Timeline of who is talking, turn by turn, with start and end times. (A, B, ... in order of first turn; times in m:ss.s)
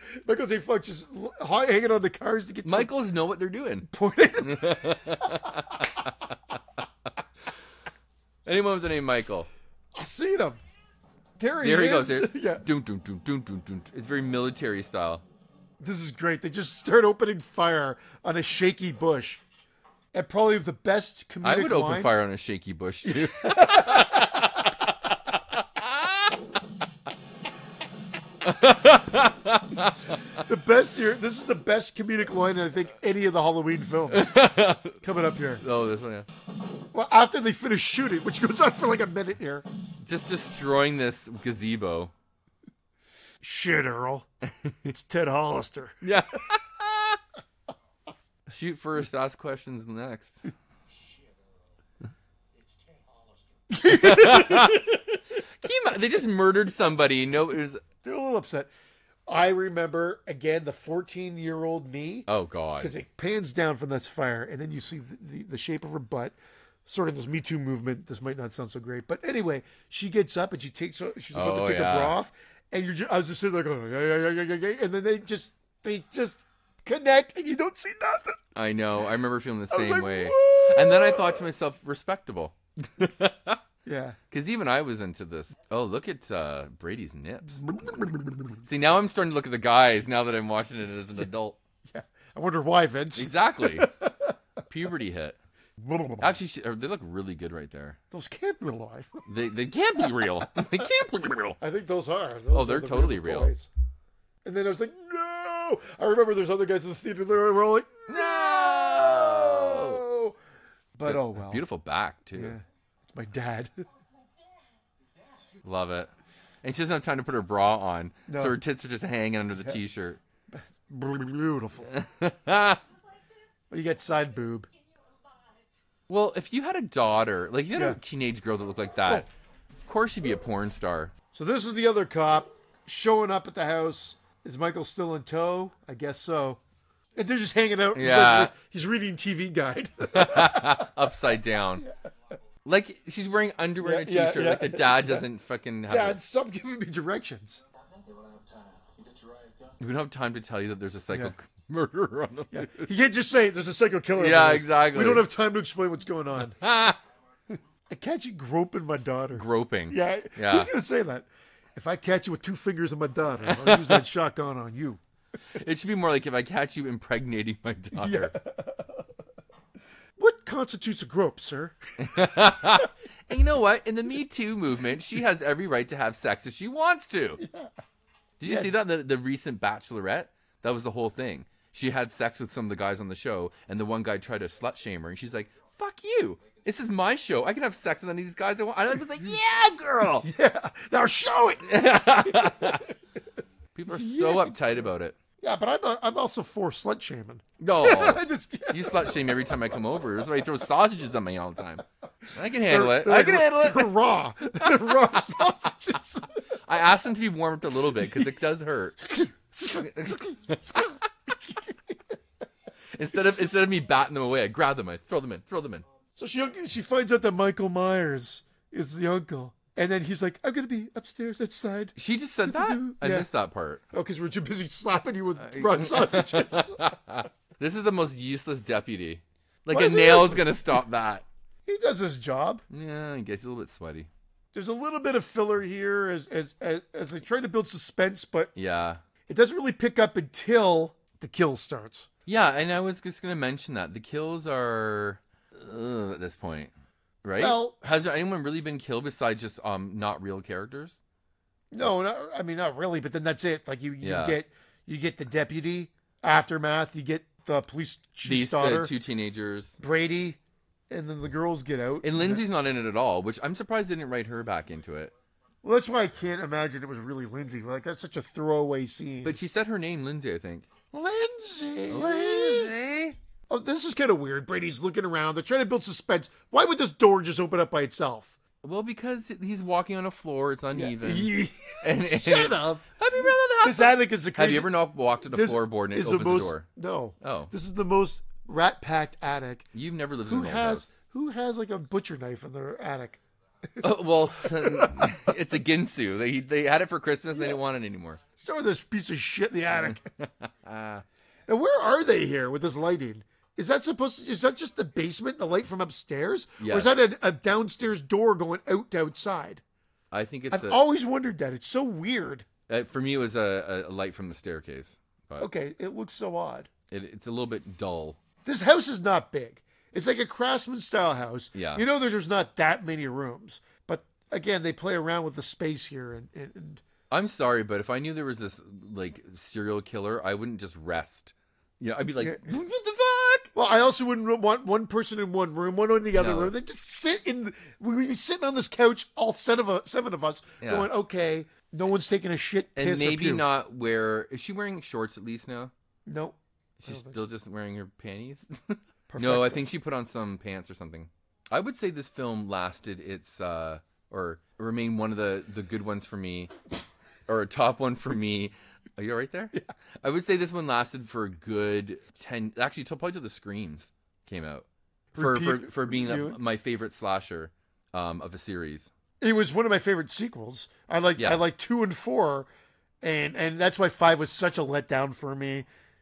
0:00.1-0:02.9 A
0:02.6-0:03.9 B
0:03.8-0:06.1 A
0:04.4-0:06.6 B
0:08.4-0:09.5 B
0:09.9-0:10.6 A
0:11.4-0:12.6 A
0:11.6-0:15.2 B
0:15.8-0:19.4 A
0:20.1-0:22.1 A
0:21.4-0:26.4 B
0:23.1-0:24.9 A
0:28.4-0:30.2 B
0:30.3-0:34.4 A
0:34.1-0:35.0 B
0:34.9-0:35.6 A
0:35.6-0:36.3 B
0:36.9-0:39.7 A
0:40.0-0:42.1 B
0:43.4-0:44.3 A
0:44.4-0:44.7 B
0:44.8-0:46.0 A
0:46.0-0:47.2 B
0:48.5-0:50.4 B
0:53.7-0:55.2 A
0:53.8-0:54.9 B
0:55.6-0:57.8 B
0:58.0-0:58.7 A
0:59.3-1:02.3 A
1:02.3-1:02.9 B
1:02.8-1:18.4 A
1:11.3-1:12.2 B
1:18.5-1:23.6 B
1:19.7-1:21.5 A
1:23.8-1:24.2 A
1:24.3-1:28.0 B
1:27.6-1:28.6 A
1:28.6-1:31.6 B
1:31.9-1:34.4 A
1:33.2-1:33.9 B
1:34.7-1:35.4 B
1:35.8-1:36.4 A
1:36.2-1:38.0 B
1:38.1-1:39.2 A
1:39.3-1:41.6 B
1:41.6-1:43.7 A
1:42.5-1:43.5 B
1:44.4-1:50.4 A
1:48.1-1:50.0 B
1:50.9-1:51.6 A
1:51.0-1:52.6 B
1:52.4-1:53.8 A
1:55.6-1:56.1 B
1:56.6-2:00.2 B
1:58.3-1:58.6 A
2:00.5-2:01.9 A
2:01.9-2:02.8 B
2:03.7-2:04.7 A
2:06.1-2:11.1 B
2:11.3-2:16.6 A
2:17.2-2:21.0 A
2:17.9-2:18.5 B
2:20.1-2:21.8 B
2:22.6-2:26.2 B
2:23.8-2:25.2 A
2:25.9-2:27.6 A
2:29.8-2:32.9 B
2:32.5-2:36.6 A
2:34.1-2:35.3 B
2:36.4-2:37.0 B
2:37.9-2:45.0 A
2:39.3-2:40.7 B
2:43.4-2:44.0 B
2:45.5-2:48.3 B
2:47.9-2:49.0 A
2:50.2-2:52.9 A
2:52.0-2:57.4 B
2:57.4-2:57.7 A
2:58.4-3:10.3 B
2:58.4-2:58.7 A
3:10.2-3:12.9 A
3:11.6-3:12.8 B
3:13.7-3:15.2 B
3:13.9-3:14.8 A
3:15.4-3:19.2 A
3:17.6-3:21.8 B
3:22.2-3:26.4 A
3:22.3-3:24.0 B
3:24.6-3:25.4 B
3:26.6-3:29.0 B
3:28.0-3:28.4 A
3:29.0-3:32.1 A
3:29.6-3:31.0 B
3:32.9-3:35.8 B
3:36.1-3:43.3 A
3:42.0-3:43.8 B
3:43.9-3:46.8 A
3:45.4-3:51.2 B
3:49.7-3:50.6 A
3:51.6-3:52.6 A
3:52.7-3:54.1 B
3:54.5-3:58.5 A
3:58.6-3:59.0 B
3:59.3-4:02.1 A
4:02.2-4:06.7 B
4:07.2-4:11.0 B
4:07.4-4:07.8 A
4:11.7-4:18.9 A
4:14.0-4:14.4 B
4:18.2-4:19.8 B
4:19.8-4:20.4 A
4:20.9-4:22.4 A
4:22.0-4:25.1 B
4:25.6-4:29.4 A
4:29.2-4:30.6 B
4:30.9-4:32.7 A
4:31.9-4:33.2 B
4:33.5-4:38.4 A
4:38.6-4:46.6 B
4:40.7-4:44.7 A
4:45.2-4:49.7 A
4:47.2-4:47.5 B
4:49.7-4:50.9 B
4:50.2-4:53.2 A
4:53.8-4:58.2 B
4:54.4-4:55.3 A
4:58.4-5:00.1 A
4:59.7-5:01.0 B
5:01.5-5:09.6 A
5:06.6-5:06.9 B
5:10.1-5:10.8 B
5:10.5-5:12.5 A
5:12.7-5:15.5 B
5:15.4-5:16.7 A
5:16.9-5:18.2 B
5:18.4-5:26.8 A
5:21.5-5:21.8 B
5:27.1-5:33.5 B
5:32.2-5:32.5 A
5:33.5-5:43.4 A
5:36.2-5:36.5 B
5:40.6-5:40.9 B
5:42.8-5:45.7 B
5:46.1-5:47.2 A
5:46.8-5:56.5 B
5:49.1-5:49.7 A
5:57.3-6:04.6 B
6:05.1-6:06.4 A
6:05.2-6:08.9 B
6:09.2-6:12.5 A
6:11.2-6:11.4 B
6:13.0-6:15.7 A